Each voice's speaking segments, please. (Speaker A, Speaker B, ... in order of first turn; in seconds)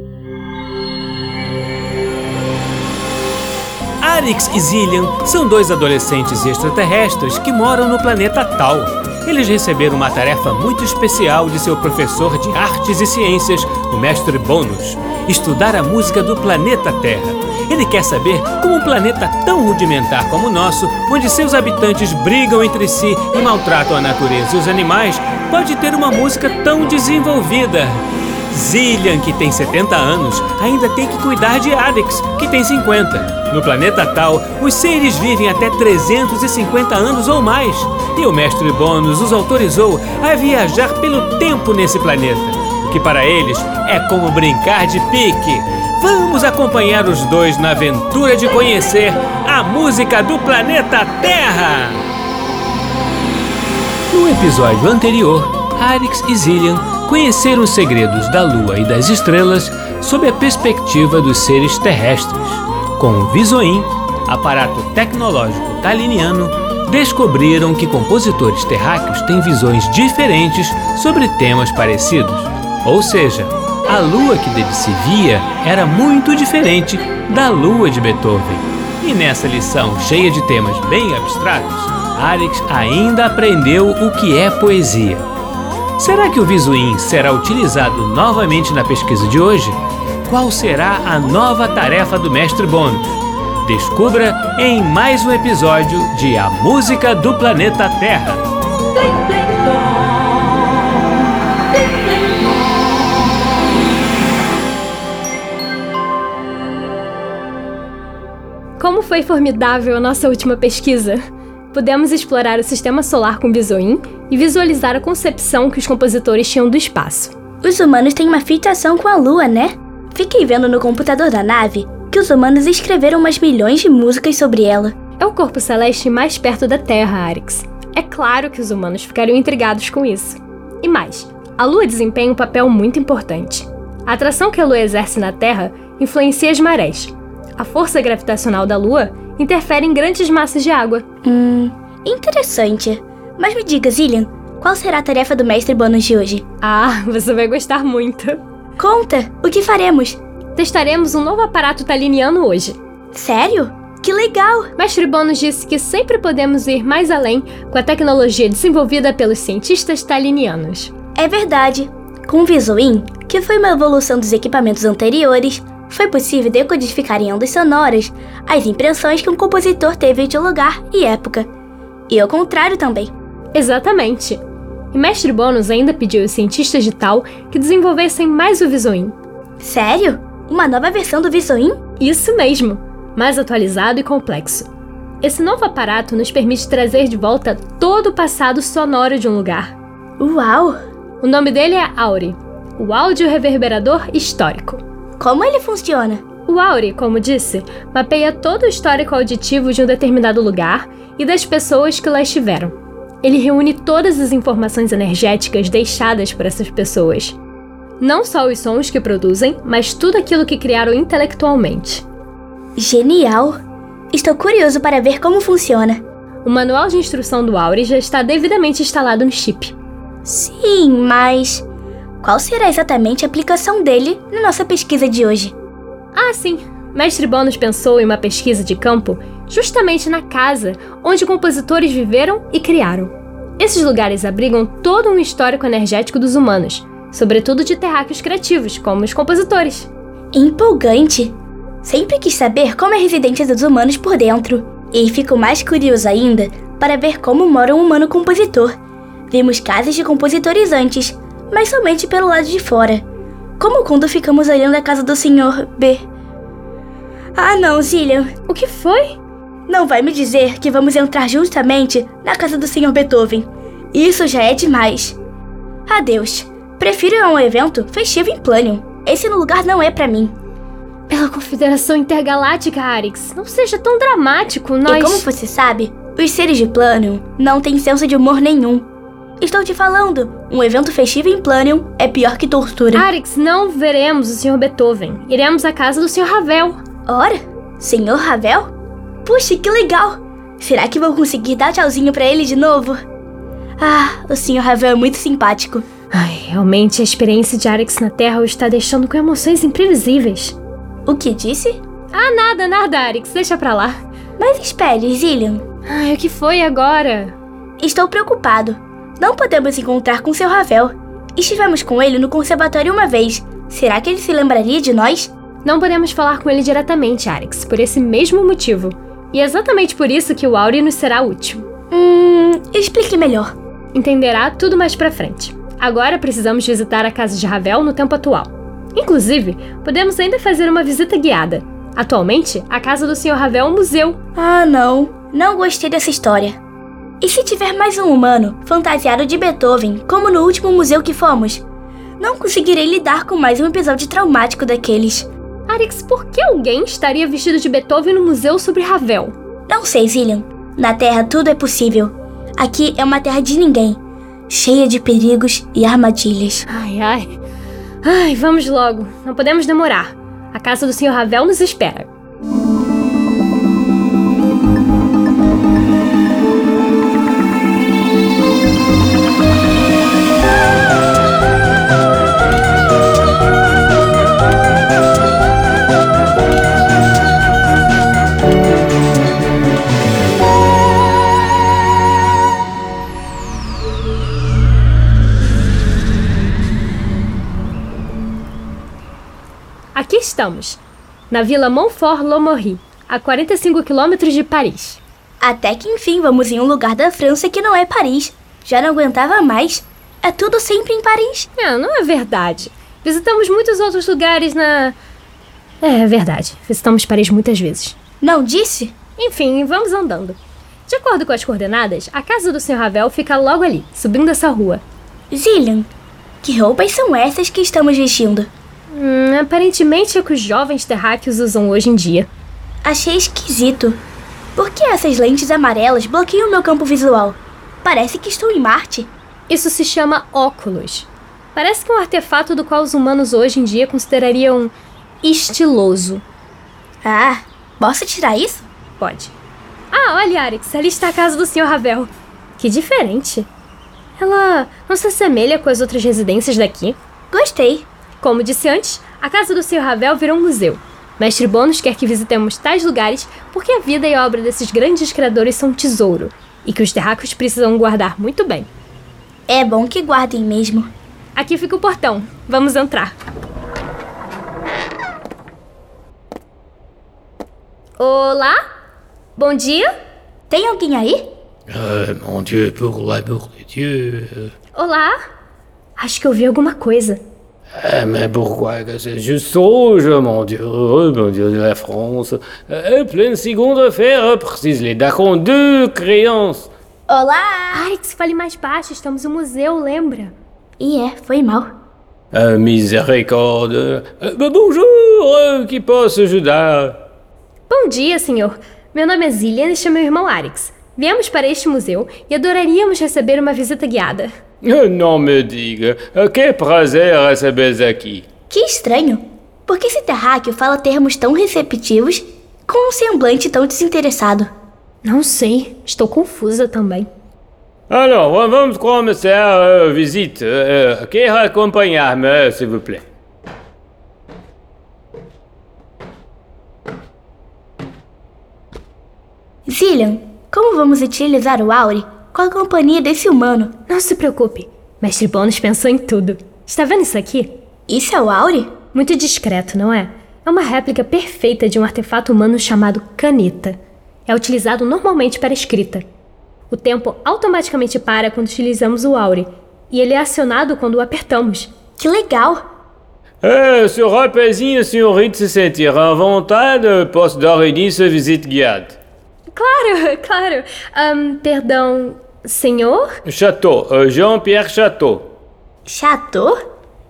Speaker A: 4.0-52.0, 54.1-85.3, 86.0-93.0, 93.6-98.5, 471.7-474.5, 477.8-486.7, 492.3-497.0, 504.6-508.2, 517.9-523.0, 553.4-559.0, 563.2-565.3
Speaker B: 108.8-111.2, 111.7-117.3, 125.2-141.0, 146.6-148.4, 150.6-152.8, 154.8-160.9, 173.5-174.4, 174.9-179.2, 182.0-184.7, 185.2-189.7, 191.2-194.8, 196.4-207.4, 208.0-212.1, 216.4-219.8, 226.1-239.9, 258.5-259.2, 271.1-275.3, 282.9-286.8, 296.1-300.6, 302.1-304.0, 305.9-307.4, 315.6-321.7, 323.9-334.2, 345.7-349.4, 356.7-357.4, 358.0-362.1, 389.9-395.0, 401.6-404.9, 405.8-408.0, 409.2-414.8, 418.9-422.3, 429.5-436.2, 439.0-439.3, 439.9-443.5, 444.2-447.0, 448.2-458.7, 461.4-463.1, 468.0-468.6, 469.4-469.9, 474.7-475.2, 476.0-477.2, 487.7-490.3, 497.7-504.3, 515.0-517.1, 533.9-537.5, 538.9-546.0, 546.7-551.7, 559.5-563.1
Speaker C: 117.6-125.0, 141.2-146.4, 148.8-150.2, 153.1-154.7, 161.2-171.5, 172.1-173.1, 179.6-181.8, 190.2-190.8, 195.2-196.2, 212.8-213.6, 214.1-216.0, 220.2-221.7, 222.2-225.6, 240.3-248.7, 249.3-253.1, 253.6-256.1, 257.3-258.3, 259.7-265.2, 265.9-270.4, 274.9-278.9, 279.4-283.1, 287.1-293.0, 293.8-295.9, 301.1-301.8, 304.4-305.6, 307.8-315.3, 321.9-323.5, 334.3-336.6, 337.2-341.6, 342.2-345.3, 349.7-356.6, 395.4-401.5, 408.2-408.9, 415.3-415.9, 416.4-418.5, 422.8-424.0, 424.6-429.1, 437.0-438.7, 447.3-447.9, 459.5-460.9, 470.5-471.3, 487.1-487.9, 490.8-491.7, 508.5-514.5, 529.6-533.8, 537.9-538.7, 552.0-552.6, 565.9-566.6